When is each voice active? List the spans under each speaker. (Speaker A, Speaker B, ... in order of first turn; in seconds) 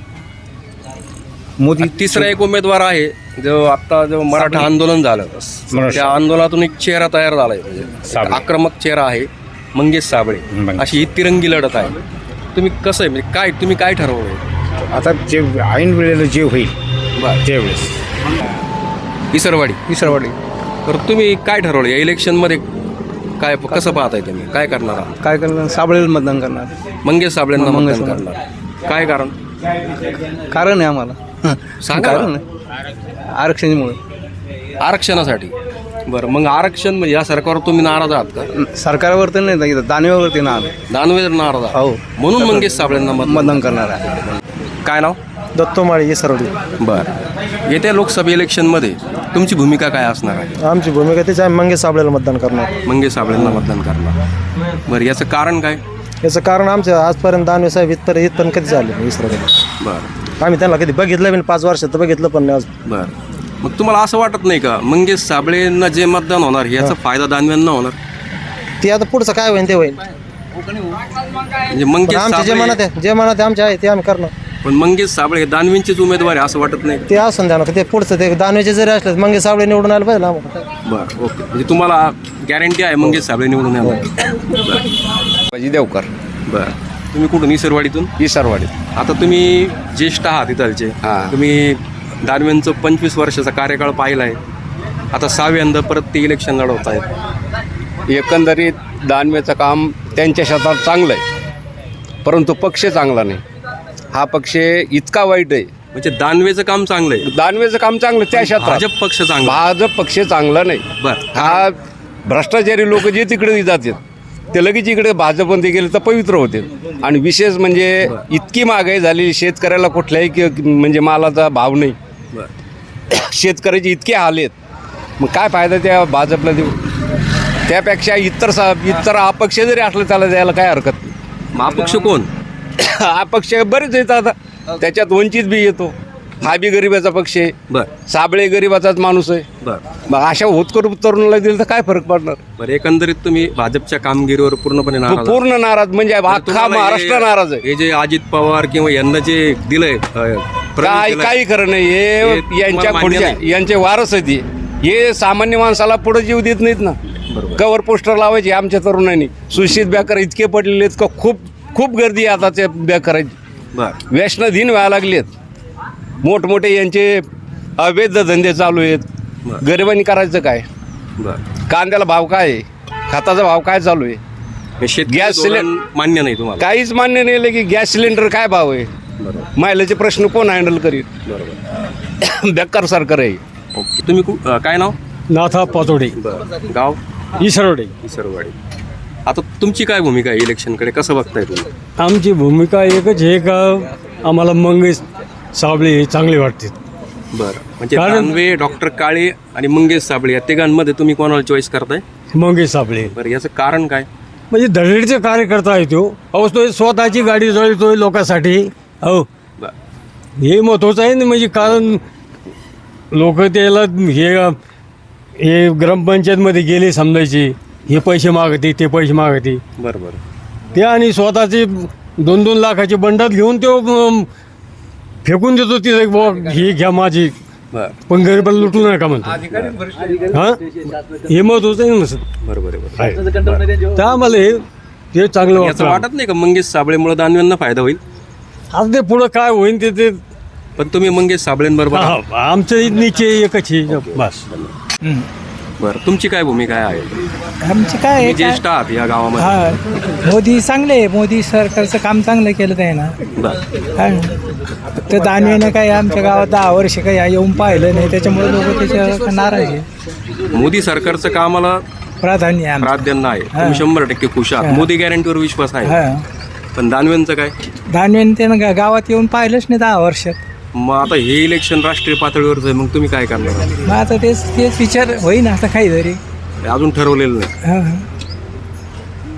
Speaker A: 1.6-2.2, 5.7-6.2, 8.1-8.4, 10.5-10.9, 14.9-16.7, 17.4-17.9
Speaker B: 1.8-12.0, 12.5-14.4, 19.3-19.8, 20.9-22.6, 23.4-25.1, 27.0-29.3, 31.8-32.3, 34.8-35.5, 36.1-38.5, 40.9-43.7, 44.8-45.2, 46.8-47.1, 47.7-50.6, 52.9-54.1, 54.9-55.8, 59.8-60.1, 62.9-68.0, 71.7-72.8, 74.6-77.1, 80.8-84.8, 86.5-88.1, 88.9-94.4, 95.1-97.1, 105.9-107.3, 108.3-109.6, 111.0-111.5, 131.5-132.3, 142.6-145.4, 146.3-151.3, 152.2-153.4, 157.3-157.6, 174.8-176.6, 179.2-179.4, 181.2-181.6, 183.7-185.0, 186.2-187.0, 188.0-188.5, 189.2-191.7, 197.3-202.0, 203.1-204.1, 219.8-220.2, 232.4-233.6, 235.5-238.0, 240.8-242.2, 243.9-244.7, 245.8-247.2, 248.2-249.6, 260.5-261.8, 262.8-266.0, 266.8-267.5, 270.7-273.7, 276.6-277.5
Speaker C: 25.2-26.5, 27.6-28.2, 30.5-31.1, 31.9-32.3, 33.4-34.0, 38.8-40.7, 43.2-44.0
Speaker D: 45.5-46.5, 50.6-52.7, 56.2-59.5, 60.4-62.7, 68.8-70.0, 72.1-74.3, 77.1-80.6
Speaker E: 85.5-86.1, 88.2-88.7, 91.0-91.3, 98.1-101.2, 102.2-103.4, 104.1-105.7, 107.2-108.9, 109.4-111.7, 112.2-114.0, 114.5-122.0, 123.1-124.5, 125.2-126.7, 127.7-131.1, 132.8-137.5, 138.1-139.4, 140.1-142.4, 145.1-147.6, 150.8-156.9, 157.6-163.3, 164.1-165.3, 166.2-167.2, 167.8-169.0, 169.6-170.6, 171.7-174.2, 175.1-175.7, 176.6-178.9, 179.6-181.1, 182.2-183.4, 229.2-230.4
Speaker F: 185.3-186.2, 187.4-187.9, 192.0-195.0, 195.5-196.7, 197.9-198.3, 202.3-203.1, 204.5-209.3, 210.4-212.0, 213.1-214.6, 215.4-219.6, 220.7-224.3, 225.2-227.3, 228.1-229.4, 230.3-230.6, 231.3-232.2, 233.0-233.2, 233.8-234.6, 235.1-236.0, 238.7-240.2, 241.9-244.4
Speaker G: 247.6-248.6, 249.4-253.2, 254.0-254.3, 255.0-259.9, 262.2-263.8, 264.6-264.9, 265.8-266.2, 267.9-270.4, 273.9-276.2, 277.6-278.0